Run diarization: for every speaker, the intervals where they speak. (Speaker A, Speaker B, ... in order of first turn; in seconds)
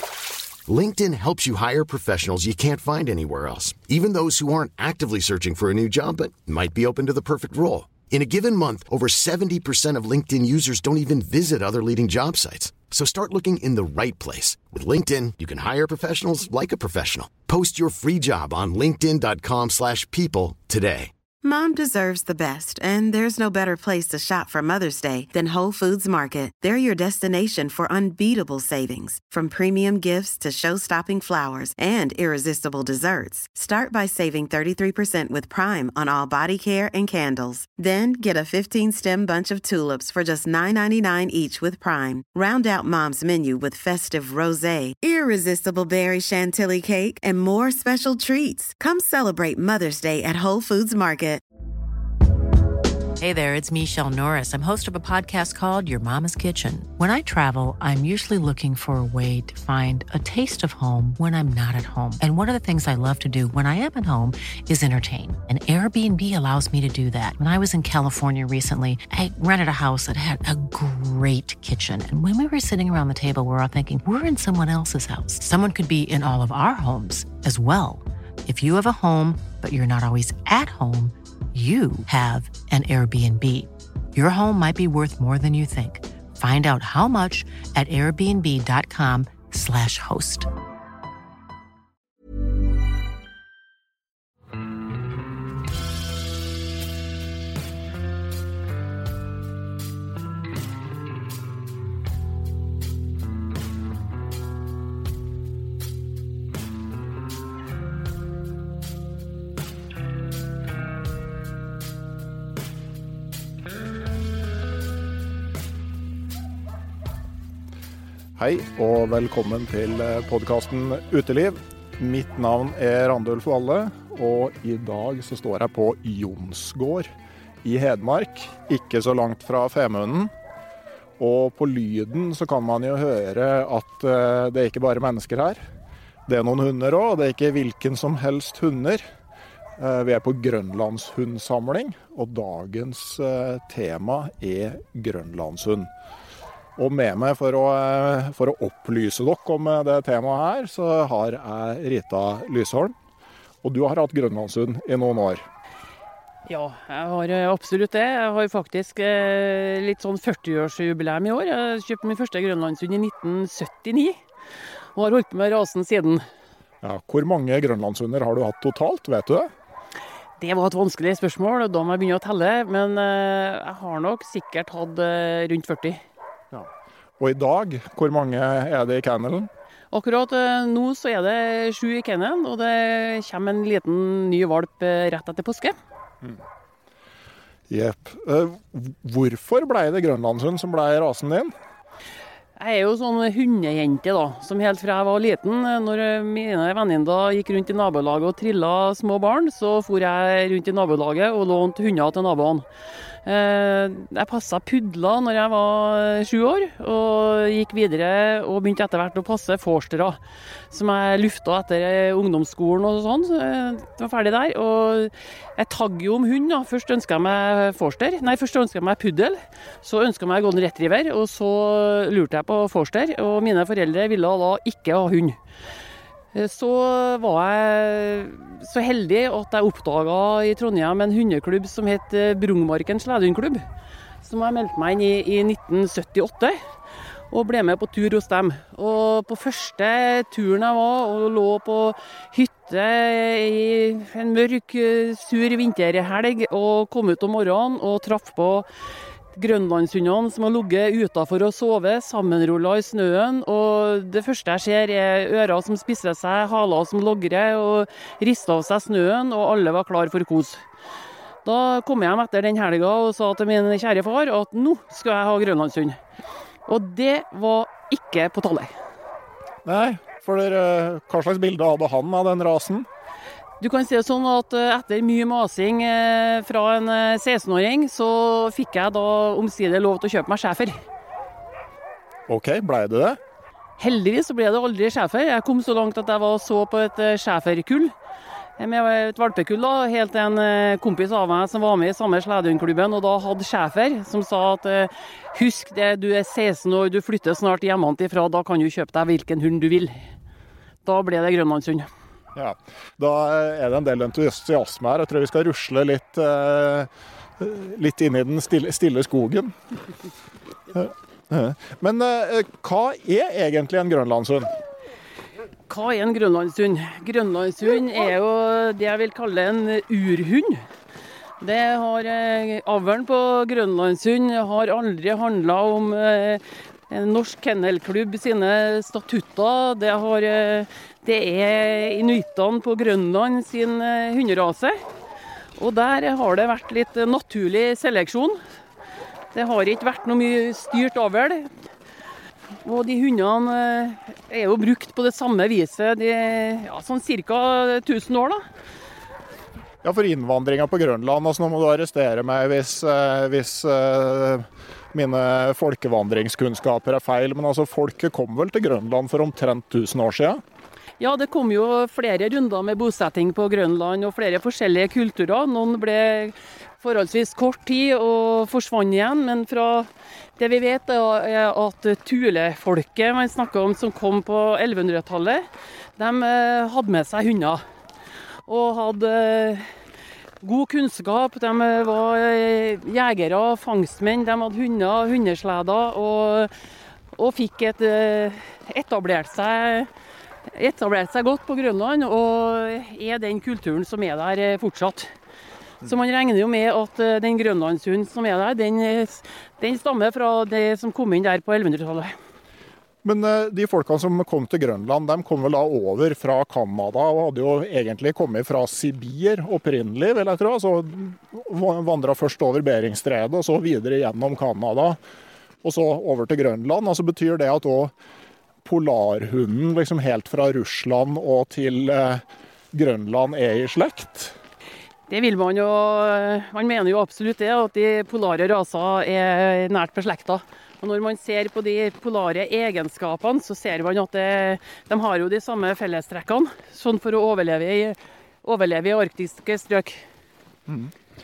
Speaker A: 0.7-21.1
Speaker B: 21.4-51.4
Speaker C: 53.2-90.5
Speaker D: 118.4-127.1, 127.6-130.3, 131.2-135.6, 136.3-139.1, 139.8-145.9, 146.8-152.9, 153.6-155.5, 166.8-169.5, 176.5-179.5, 187.7-191.5, 269.6-272.9, 282.3-283.2, 302.3-309.6, 310.7-314.6, 349.8-360.4, 403.0-415.0, 415.6-417.9, 418.6-424.4, 440.7-440.9
Speaker E: 156.5-164.2, 164.9-166.2, 170.4-176.0, 179.9-185.8, 192.6-202.7, 203.2-210.2, 210.7-225.4, 226.3-233.7, 234.2-236.6, 237.3-248.7, 249.3-260.6, 261.4-266.0, 266.7-268.7, 273.6-280.8, 283.8-287.9, 288.6-300.0, 300.9-301.9, 315.7-320.6, 321.4-334.8, 335.6-338.4, 339.3-341.5, 342.6-348.4, 361.0-377.6, 378.5-379.7, 380.4-386.5, 387.1-389.9, 390.5-395.1, 395.8-402.1, 425.1-440.0